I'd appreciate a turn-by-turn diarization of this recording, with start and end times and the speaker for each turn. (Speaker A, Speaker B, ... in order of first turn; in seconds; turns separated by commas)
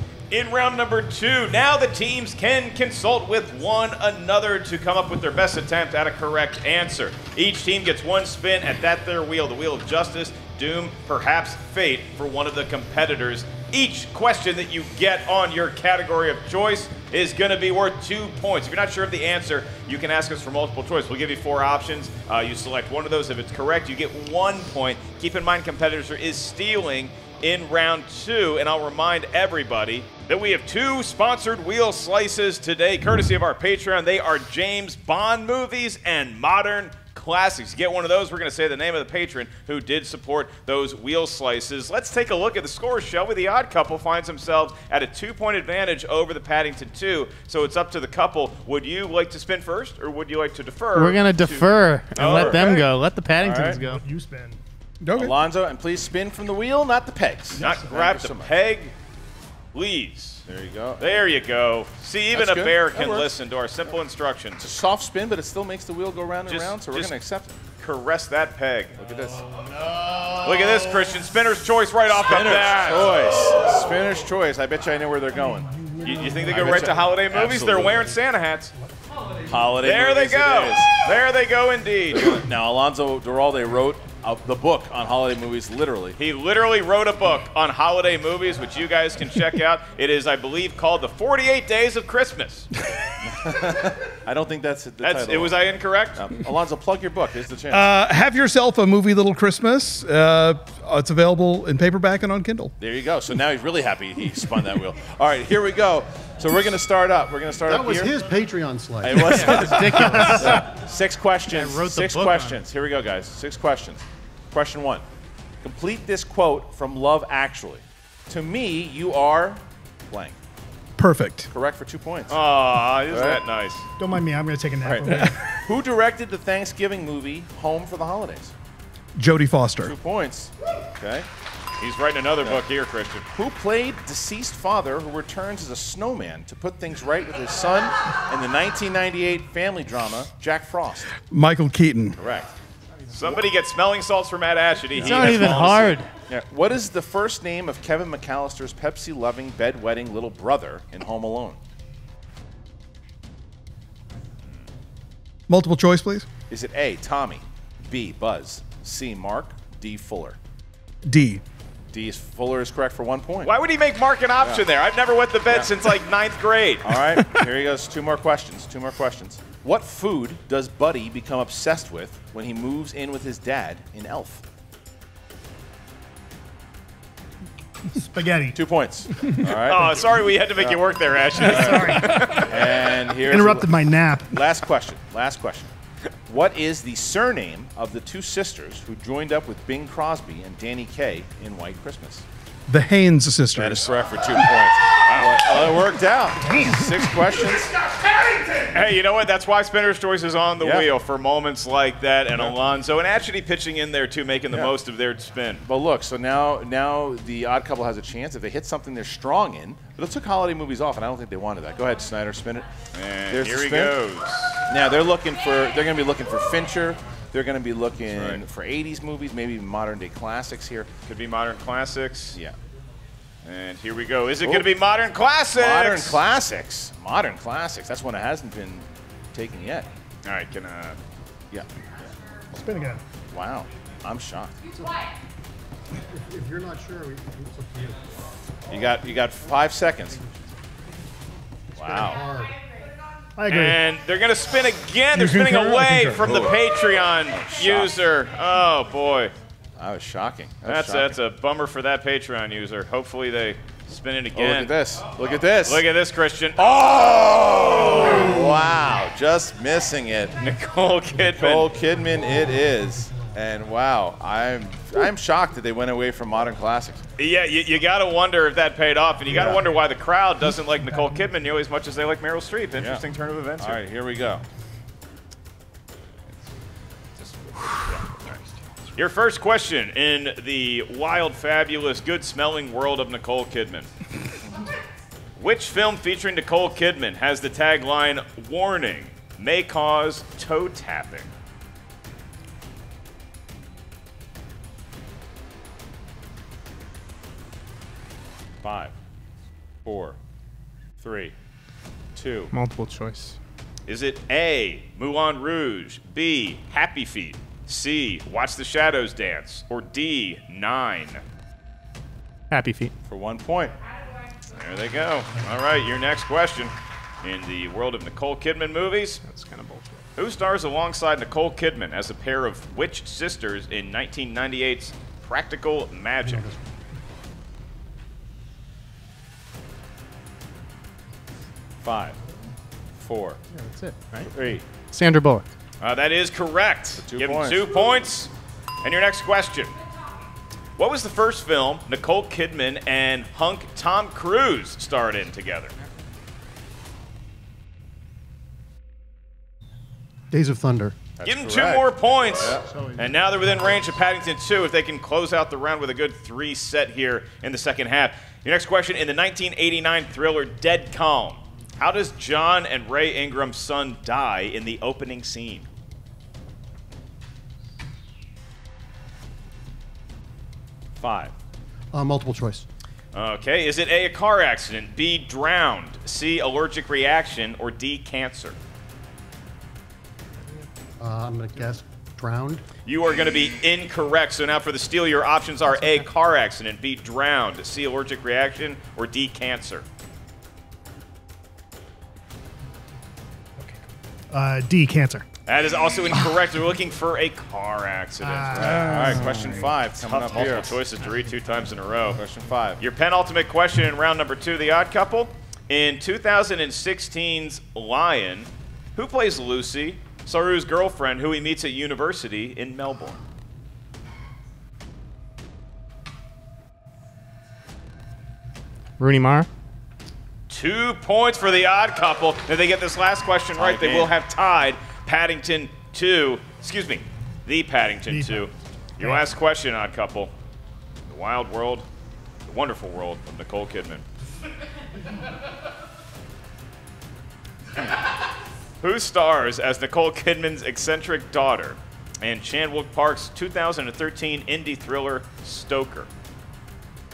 Speaker A: 0.3-52.9, Speaker B: 50.9-54.0, Speaker C: 52.2-52.8, Speaker C: 53.4-53.8, Speaker D: 53.8-54.6, Speaker E: 55.0-55.3, Speaker C: 55.1-58.5, Speaker A: 57.6-58.9, Speaker A: 59.7-60.4, Speaker C: 60.5-61.2, Speaker A: 61.0-64.6, Speaker C: 62.3-63.3, Speaker C: 64.6-67.5, Speaker A: 66.5-67.1, Speaker A: 67.8-69.0, Speaker C: 69.0-70.2, Speaker A: 70.3-73.3, Speaker C: 72.1-78.2, Speaker A: 76.0-78.7, Speaker C: 79.5-81.0, Speaker A: 79.8-82.4, Speaker C: 82.1-86.2, Speaker A: 86.2-92.7, Speaker C: 93.3-95.6, Speaker A: 95.0-96.2, Speaker C: 96.2-97.9, Speaker E: 97.7-102.7, Speaker C: 102.8-108.2, Speaker F: 107.7-109.4, Speaker C: 109.0-115.0, Speaker B: 109.2-110.7, Speaker E: 109.3-110.4, Speaker B: 111.5-112.6, Speaker C: 115.6-120.4, Speaker E: 121.0-121.5, Speaker C: 121.5-122.4, Speaker A: 122.3-123.9, Speaker C: 123.1-123.4, Speaker D: 124.0-125.4, Speaker C: 124.8-128.5, Speaker E: 125.0-125.5, Speaker E: 129.2-129.9, Speaker C: 129.8-131.3, Speaker A: 131.8-133.2, Speaker C: 133.3-141.1, Speaker E: 141.2-142.2, Speaker C: 142.2-142.5, Speaker A: 143.1-146.0, Speaker C: 144.9-145.7, Speaker B: 145.0-146.1, Speaker C: 146.3-151.6, Speaker E: 155.5-156.3, Speaker C: 156.5-160.4, Speaker E: 161.1-161.4, Speaker C: 161.9-163.5, Speaker A: 163.4-167.0, Speaker C: 165.5-165.8, Speaker C: 166.8-174.4, Speaker D: 177.9-178.6, Speaker C: 178.5-180.0, Speaker A: 179.5-182.5, Speaker C: 181.3-185.7, Speaker D: 181.4-182.2, Speaker D: 183.2-184.3, Speaker C: 186.3-192.2, Speaker E: 192.7-193.9, Speaker C: 193.5-197.7, Speaker A: 195.0-195.4, Speaker A: 198.7-205.6, Speaker C: 200.6-200.9, Speaker C: 205.7-212.7, Speaker A: 212.9-214.7, Speaker C: 213.3-214.0, Speaker C: 214.7-220.9, Speaker A: 218.1-218.4, Speaker A: 221.1-222.4, Speaker A: 223.4-226.2, Speaker C: 224.4-224.7, Speaker C: 225.5-229.9, Speaker A: 230.2-231.0, Speaker D: 232.5-233.0, Speaker C: 233.3-234.5, Speaker F: 234.7-235.0, Speaker F: 236.1-238.1, Speaker C: 238.7-240.2, Speaker C: 241.8-242.2, Speaker F: 241.8-242.6, Speaker D: 243.4-243.8, Speaker A: 243.5-249.3, Speaker E: 245.1-246.4, Speaker C: 246.2-246.5, Speaker C: 247.3-247.9, Speaker C: 249.8-251.2, Speaker A: 250.7-254.7, Speaker C: 254.3-255.8, Speaker A: 255.6-258.4, Speaker C: 256.6-260.3, Speaker A: 260.4-261.7, Speaker C: 261.3-267.0, Speaker A: 267.2-273.8, Speaker C: 269.3-269.6, Speaker C: 272.8-273.0, Speaker C: 273.6-274.4, Speaker A: 278.9-283.9, Speaker A: 285.4-291.3, Speaker C: 298.6-298.9, Speaker C: 299.8-300.2, Speaker C: 301.0-301.3, Speaker C: 302.1-302.5, Speaker B: 302.5-303.4, Speaker A: 303.9-311.2, Speaker B: 312.5-312.9, Speaker C: 313.1-313.7, Speaker A: 314.5-319.2, Speaker B: 319.2-320.0, Speaker A: 320.2-326.4, Speaker F: 326.2-327.1, Speaker C: 331.8-332.2, Speaker C: 333.0-333.4, Speaker B: 333.8-335.5, Speaker C: 334.2-334.6, Speaker A: 335.8-338.3, Speaker C: 337.0-337.7, Speaker A: 338.8-339.7, Speaker A: 340.8-345.7, Speaker F: 350.3-350.9, Speaker C: 351.2-352.7, Speaker A: 351.2-365.7, Speaker C: 371.0-371.3, Speaker F: 371.9-372.6, Speaker A: 373.1-378.6, Speaker F: 381.0-382.6, Speaker A: 382.9-389.9, Speaker D: 394.3-395.2, Speaker A: 395.5-398.9, Speaker D: 398.2-399.6, Speaker C: 398.5-400.7, Speaker A: 400.0-402.2, Speaker C: 402.1-402.8, Speaker A: 402.8-413.2, Speaker B: 419.0-419.5, Speaker A: 420.5-430.3, Speaker C: 423.6-424.1, Speaker D: 428.1-428.5, Speaker A: 431.1-431.9, Speaker A: 432.5-434.0, Speaker A: 438.8-446.1